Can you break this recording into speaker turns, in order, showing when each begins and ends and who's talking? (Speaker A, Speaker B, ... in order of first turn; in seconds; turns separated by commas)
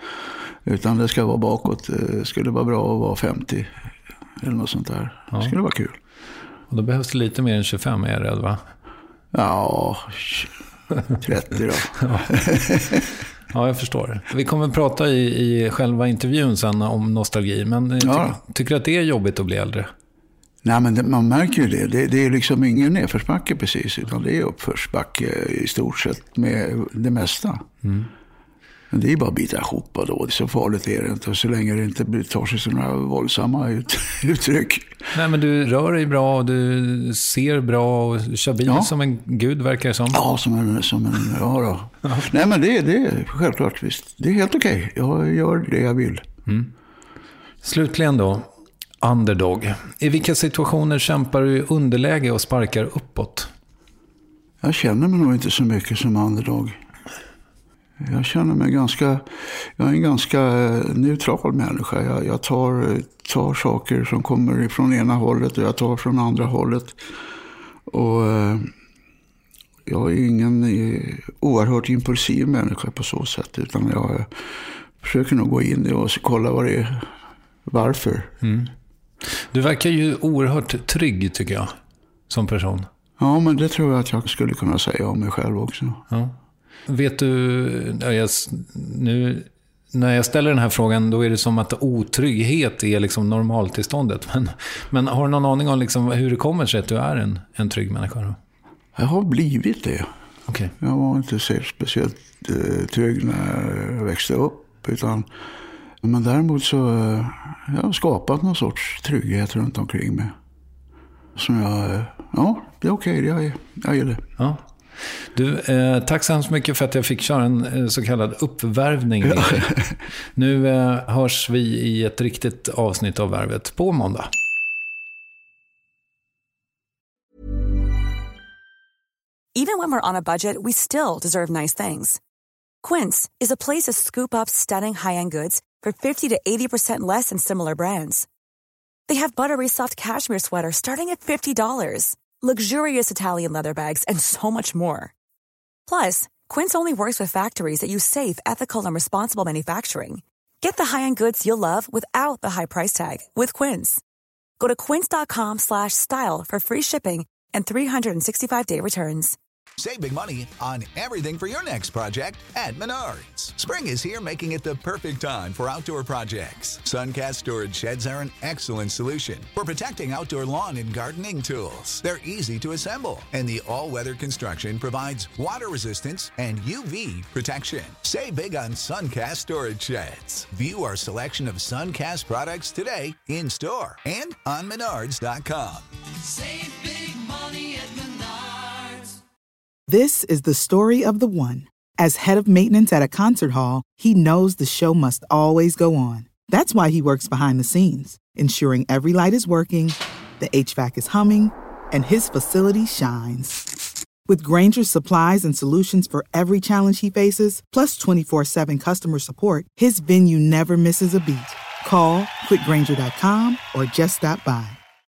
Speaker A: 0.7-3.7, Speaker A: 4.4-6.0, Speaker B: 6.7-8.6, Speaker A: 9.3-10.5, Speaker A: 11.2-13.0, Speaker B: 12.0-12.3, Speaker B: 13.5-19.9, Speaker A: 18.0-18.4, Speaker A: 20.6-27.6, Speaker B: 27.8-28.1, Speaker A: 28.9-34.9, Speaker B: 35.1-40.2, Speaker A: 38.6-38.9, Speaker A: 40.1-46.2, Speaker B: 47.6-48.5, Speaker B: 49.0-53.5, Speaker A: 54.6-56.8, Speaker A: 58.0-66.9, Speaker A: 67.9-68.7, Speaker A: 69.9-74.4, Speaker A: 75.0-77.1, Speaker A: 77.7-78.3, Speaker B: 78.4-78.7, Speaker B: 79.5-81.7, Speaker B: 82.3-82.9, Speaker A: 83.2-86.0, Speaker B: 86.9-98.4, Speaker A: 99.0-100.1, Speaker B: 100.5-100.7, Speaker A: 100.8-105.2, Speaker A: 106.0-110.3, Speaker A: 111.3-114.2, Speaker B: 114.4-114.6, Speaker B: 115.3-119.7, Speaker B: 120.3-124.3, Speaker C: 129.5-132.2, Speaker C: 132.8-138.3, Speaker C: 139.1-145.1, Speaker C: 145.9-154.0, Speaker C: 154.6-159.3, Speaker D: 159.8-185.8, Speaker E: 189.9-203.6, Speaker E: 204.3-214.8